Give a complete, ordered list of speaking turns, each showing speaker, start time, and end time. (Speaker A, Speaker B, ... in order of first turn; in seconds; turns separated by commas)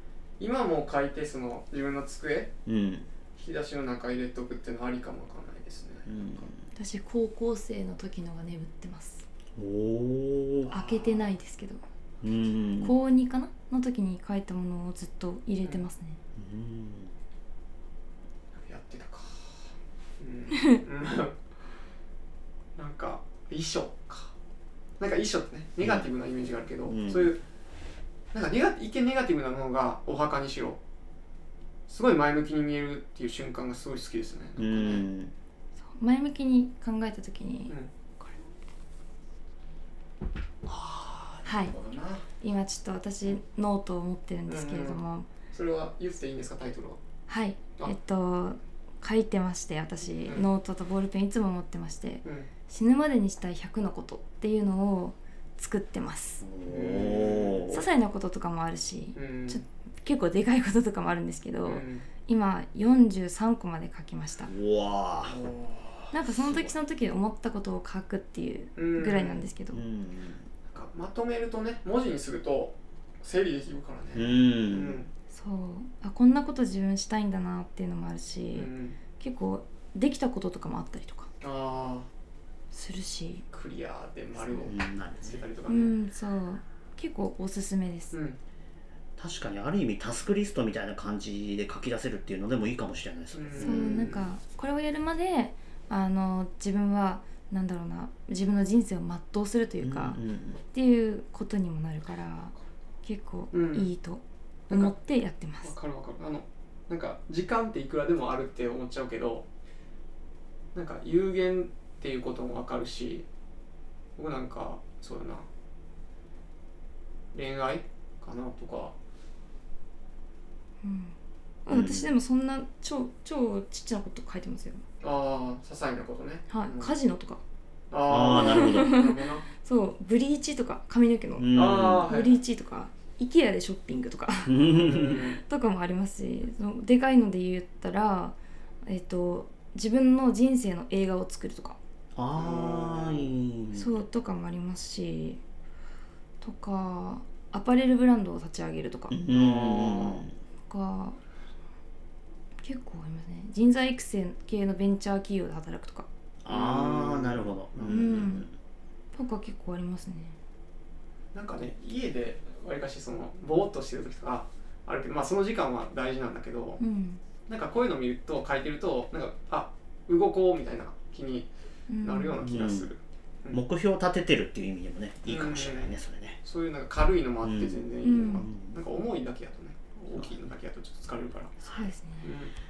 Speaker A: 0.4-2.5, Speaker B: 2.7-3.1, Speaker A: 3.4-6.2, Speaker B: 6.1-6.7, Speaker C: 6.8-9.3, Speaker B: 9.6-10.7, Speaker A: 10.7-11.3, Speaker C: 10.7-11.8, Speaker B: 12.2-13.0, Speaker C: 12.8-16.2, Speaker B: 16.4-17.1, Speaker A: 18.6-21.4, Speaker A: 22.8-24.3, Speaker A: 25.0-27.4, Speaker B: 25.8-26.1, Speaker B: 26.9-27.4, Speaker A: 28.3-30.8, Speaker A: 31.9-35.1, Speaker B: 34.6-35.3, Speaker C: 35.8-38.4, Speaker A: 40.7-42.3, Speaker C: 41.5-41.8, Speaker C: 42.4-45.3, Speaker A: 44.5-47.0, Speaker C: 47.3-56.4, Speaker A: 52.2-52.5, Speaker B: 56.4-57.9, Speaker A: 56.6-57.7, Speaker C: 57.7-64.5, Speaker A: 59.1-59.6, Speaker A: 61.7-62.1, Speaker B: 64.5-65.4, Speaker A: 65.2-66.1, Speaker C: 66.1-69.8, Speaker B: 66.2-66.8, Speaker A: 68.8-69.5, Speaker B: 69.7-70.5, Speaker A: 70.7-75.1, Speaker B: 74.2-75.0, Speaker C: 75.3-81.3, Speaker A: 78.5-79.0, Speaker A: 81.4-82.1, Speaker C: 82.7-83.5, Speaker A: 83.5-86.0, Speaker B: 84.5-85.4, Speaker C: 85.7-88.2, Speaker A: 88.1-88.4, Speaker B: 89.2-94.1, Speaker A: 93.3-94.3, Speaker C: 93.6-100.2, Speaker B: 99.8-100.6, Speaker C: 100.7-105.8, Speaker A: 103.5-103.9, Speaker A: 104.7-105.0, Speaker A: 105.6-109.5, Speaker A: 110.7-113.3, Speaker A: 114.2-115.5, Speaker A: 117.3-119.0, Speaker C: 120.8-124.8, Speaker B: 121.7-122.2, Speaker A: 125.0-127.0, Speaker C: 126.5-127.4, Speaker A: 127.9-129.5, Speaker B: 128.1-129.0, Speaker C: 128.3-141.8, Speaker B: 131.4-132.1, Speaker A: 131.5-132.4, Speaker B: 134.5-135.2, Speaker A: 134.7-135.4, Speaker B: 142.2-144.0, Speaker A: 142.3-143.4, Speaker C: 143.7-145.4, Speaker C: 146.4-149.2, Speaker B: 149.1-150.3, Speaker A: 149.3-150.3, Speaker C: 150.7-151.2, Speaker C: 152.6-156.1, Speaker B: 156.4-158.5, Speaker A: 156.5-158.3, Speaker C: 157.9-158.5, Speaker C: 159.1-160.4, Speaker A: 161.3-166.8, Speaker C: 166.8-167.2, Speaker A: 167.5-171.5, Speaker C: 171.9-172.5, Speaker A: 172.0-173.6, Speaker B: 172.4-172.9, Speaker B: 173.5-176.4, Speaker A: 175.2-181.6, Speaker B: 177.4-178.8, Speaker C: 178.0-178.5, Speaker C: 181.6-182.3, Speaker B: 181.6-181.9, Speaker A: 182.2-182.5